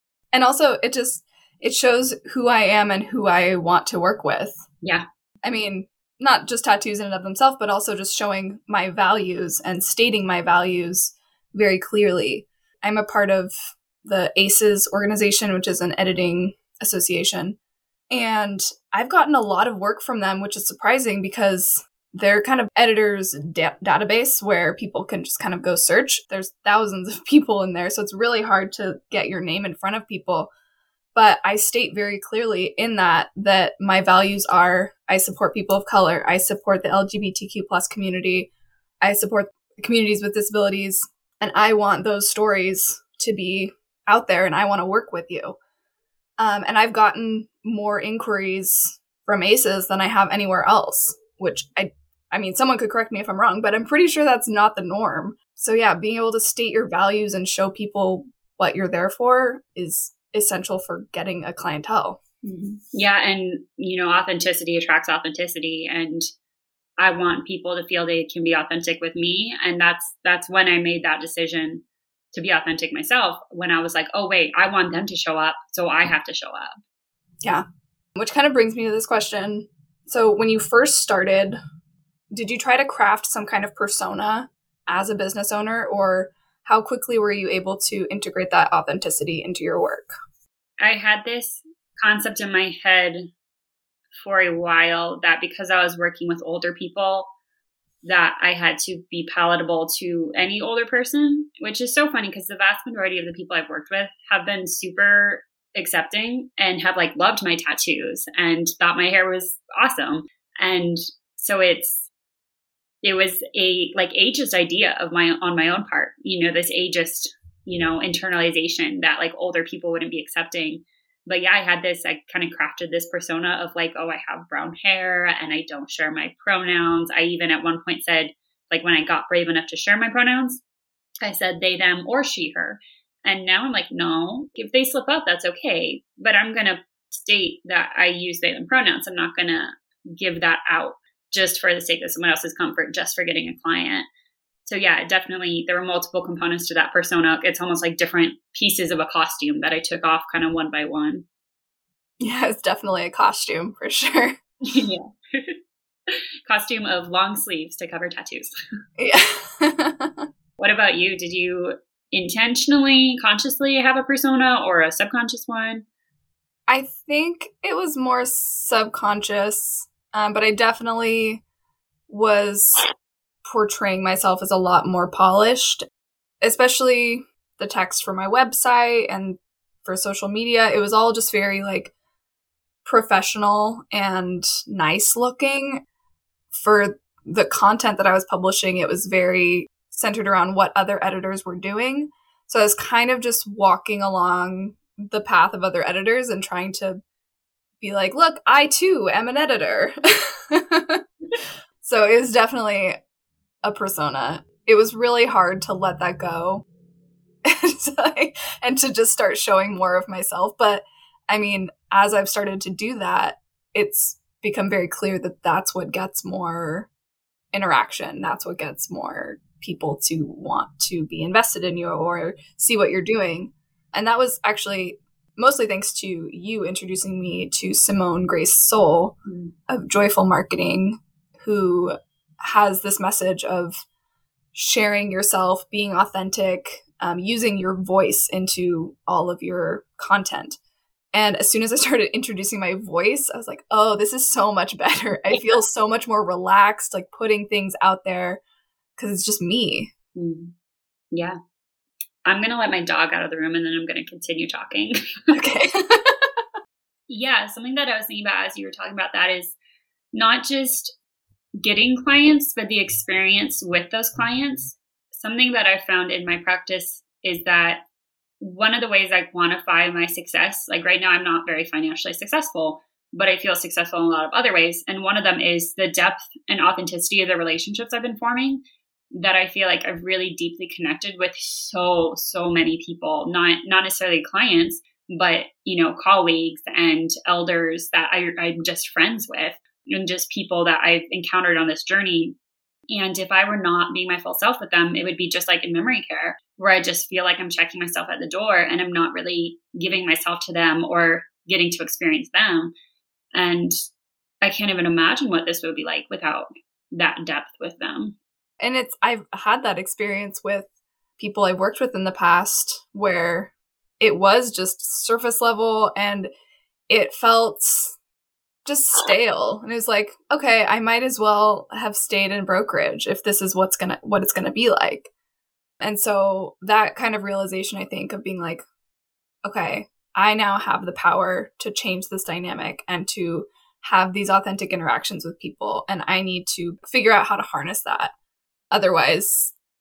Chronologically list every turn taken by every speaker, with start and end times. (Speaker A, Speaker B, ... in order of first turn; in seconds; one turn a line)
Speaker A: 0.3-4.6
Speaker A: 5.4-17.6
Speaker A: 18.1-30.5
Speaker A: 31.1-38.5
Speaker A: 39.0-45.6
Speaker A: 46.4-62.2
Speaker B: 62.5-66.2
Speaker B: 67.0-76.8
Speaker A: 78.2-81.6
Speaker A: 82.3-90.1
Speaker B: 90.8-93.3
Speaker B: 94.2-97.3
Speaker B: 98.0-112.1
Speaker B: 113.0-130.6
Speaker B: 131.2-144.1
Speaker B: 144.7-151.2
Speaker A: 152.2-154.4
Speaker B: 154.6-155.6
Speaker B: 156.1-158.5
Speaker A: 159.0-160.2
Speaker B: 160.6-165.8
Speaker A: 166.7-171.4
Speaker A: 172.1-172.9
Speaker A: 173.4-175.8
Speaker A: 176.4-181.9
Speaker A: 182.8-185.8
Speaker A: 186.5-197.0
Speaker A: 197.8-201.0
Speaker A: 201.8-203.0
Speaker A: 203.6-206.6
Speaker A: 207.4-216.9
Speaker A: 217.5-229.2
Speaker A: 229.7-233.8
Speaker A: 234.5-240.6
Speaker A: 241.1-248.4
Speaker A: 249.0-249.9
Speaker B: 250.2-250.5
Speaker B: 252.2-254.9
Speaker A: 255.3-256.3
Speaker B: 257.1-259.6
Speaker B: 260.1-260.9
Speaker B: 261.6-267.8
Speaker B: 268.4-278.6
Speaker B: 279.1-292.4
Speaker B: 292.9-302.7
Speaker B: 303.3-303.7
Speaker B: 304.4-308.1
Speaker A: 308.6-316.3
Speaker A: 316.9-317.9
Speaker A: 318.6-325.1
Speaker A: 325.8-328.6
Speaker A: 329.4-338.1
Speaker A: 338.7-339.5